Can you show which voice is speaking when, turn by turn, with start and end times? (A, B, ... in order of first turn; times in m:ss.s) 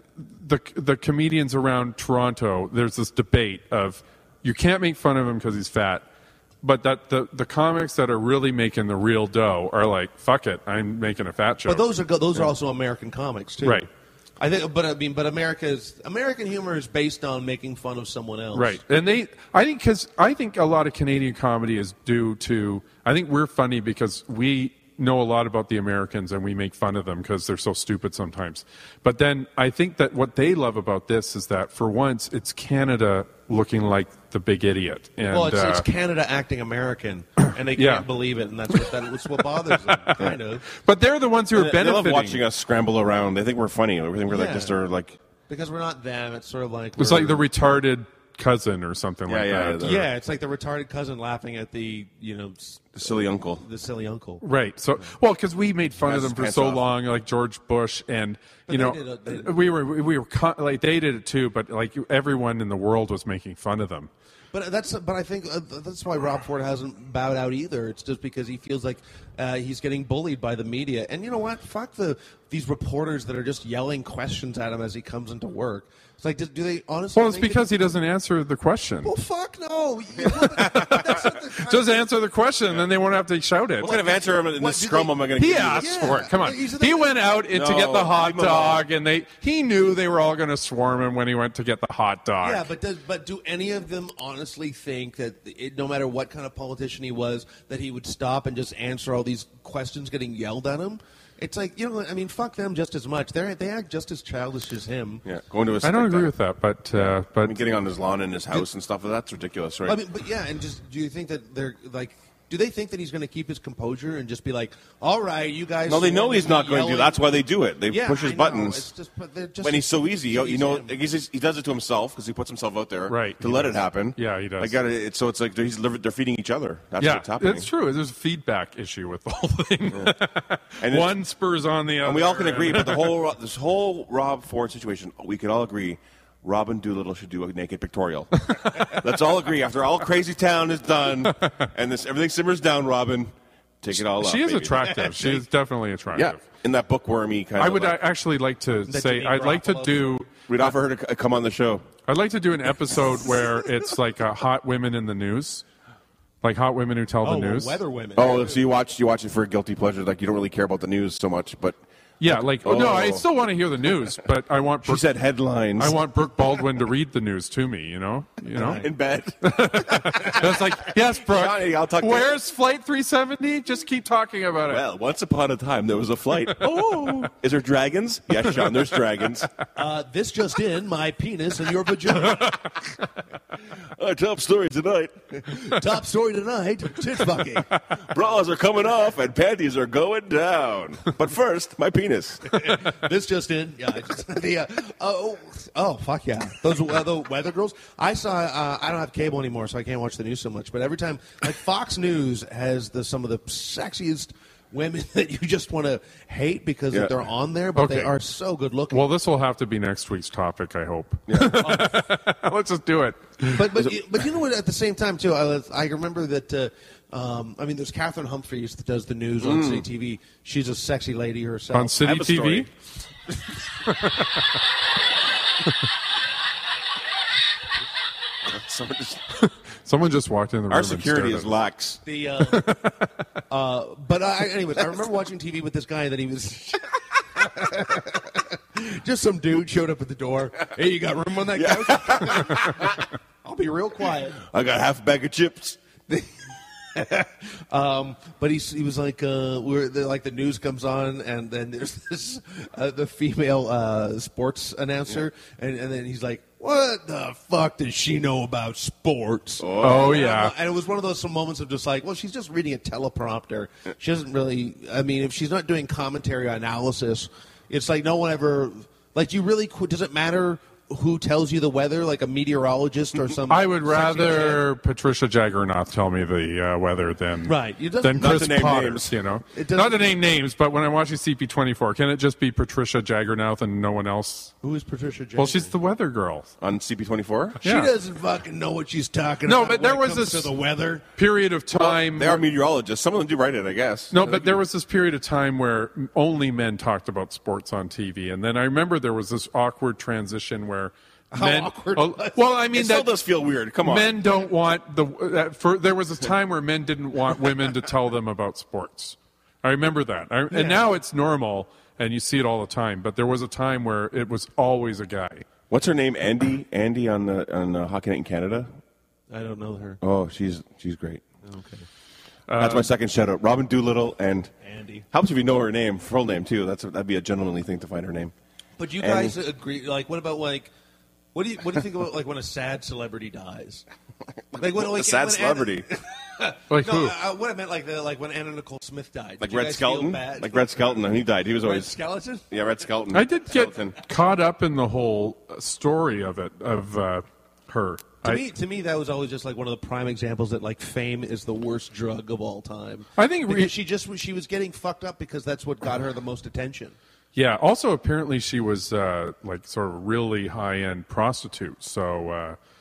0:00.2-0:06.0 A
0:06.6-0:12.5 A
0:11.6-0:13.8 B
0:14.4-0:18.8 B
0:18.5-0:35.8 A
0:35.3-0:40.6 B
0:37.8-0:38.1 A
0:38.7-0:39.0 A
0:39.6-0:42.4 A
0:41.5-0:45.2 C
0:44.3-0:44.8 B
0:45.5-0:47.5 B
0:47.0-0:50.1 A
0:49.3-0:50.0 C
0:49.8-0:54.4 B
0:53.0-0:53.6 C
0:54.4-1:04.1 A
0:56.0-0:56.8 C
0:58.7-0:59.6 B
1:04.5-1:17.7 B
1:17.1-1:19.1 A
1:19.0-1:22.1 B
1:20.3-1:23.9 A
1:23.8-1:26.0 C
1:23.8-1:27.2 B
1:25.4-1:32.7 A
1:27.5-1:28.8 C
1:32.4-1:45.2 B
1:45.2-1:46.3 C
1:45.8-1:47.6 A
1:46.9-1:50.0 C
1:49.8-1:57.2 B
1:55.9-1:58.9 C
1:57.9-2:01.0 B
1:59.6-2:07.7 C
2:03.1-2:04.8 A
2:07.0-2:13.2 A
2:10.8-2:11.1 C
2:12.0-2:25.3 C
2:18.5-2:19.0 A
2:24.0-2:26.4 A
2:24.8-2:25.2 B
2:26.1-2:28.0 C
2:27.6-2:30.7 A
2:28.9-2:30.2 B
2:30.5-2:31.9 C
2:32.1-2:35.6 A
2:36.4-2:37.8 A
2:37.2-2:38.6 B
2:38.2-2:43.2 C
2:42.2-2:45.0 A
2:44.8-2:46.0 C
2:45.8-2:48.9 A
2:48.5-2:48.9 B
2:48.8-2:52.3 C
2:49.4-2:54.8 A
2:54.7-2:59.5 C
2:56.6-2:57.3 A
2:59.8-3:02.6 B
3:03.9-3:05.4 C
3:05.4-3:07.7 B
3:08.0-3:12.6 C
3:12.5-3:29.0 B
3:27.8-3:28.1 A
3:28.9-3:33.6 A
3:31.3-3:31.6 C
3:31.6-3:32.0 B
3:33.5-3:42.6 B
3:39.4-3:39.8 C
3:41.7-3:42.7 A
3:42.0-3:42.6 C
3:43.9-3:44.5 A
3:48.4-3:49.2 C
3:49.4-3:51.5 A
3:50.7-3:52.0 C
3:52.0-3:52.7 B
3:52.5-3:53.0 A
3:53.5-4:04.4 B
4:01.5-4:03.0 C
4:04.4-4:05.8 C
4:06.9-4:34.6 B
4:19.6-4:20.2 C
4:19.8-4:20.5 A
4:33.5-4:44.5 A
4:37.4-4:38.4 B
4:38.2-4:39.1 C
4:39.5-4:40.2 B
4:44.6-4:45.7 B
4:45.4-4:46.5 A
4:46.6-4:47.6 C
4:47.6-4:47.9 A
4:47.6-4:51.0 B
4:49.4-4:50.5 A
4:51.2-4:52.4 A
4:51.7-4:54.6 C
4:54.1-5:03.1 A
5:01.3-5:02.4 B
5:02.7-5:04.2 C
5:03.8-5:15.5 A
5:10.5-5:10.8 B
5:15.7-5:18.7 C
5:19.3-5:20.0 B
5:20.0-5:21.2 C
5:21.4-5:21.8 B
5:22.5-5:22.9 A
5:22.6-5:24.5 C
5:24.6-5:25.0 B
5:25.1-5:28.3 C
5:28.8-5:30.7 B
5:29.0-5:29.4 C
5:31.3-5:33.8 B
5:34.5-5:35.9 C
5:34.5-5:42.5 B
5:36.7-5:37.2 A
5:39.4-5:42.0 C
5:42.5-5:44.0 C
5:43.1-5:48.4 A
5:48.2-5:57.0 B
5:53.2-5:53.7 A
5:57.3-6:02.6 A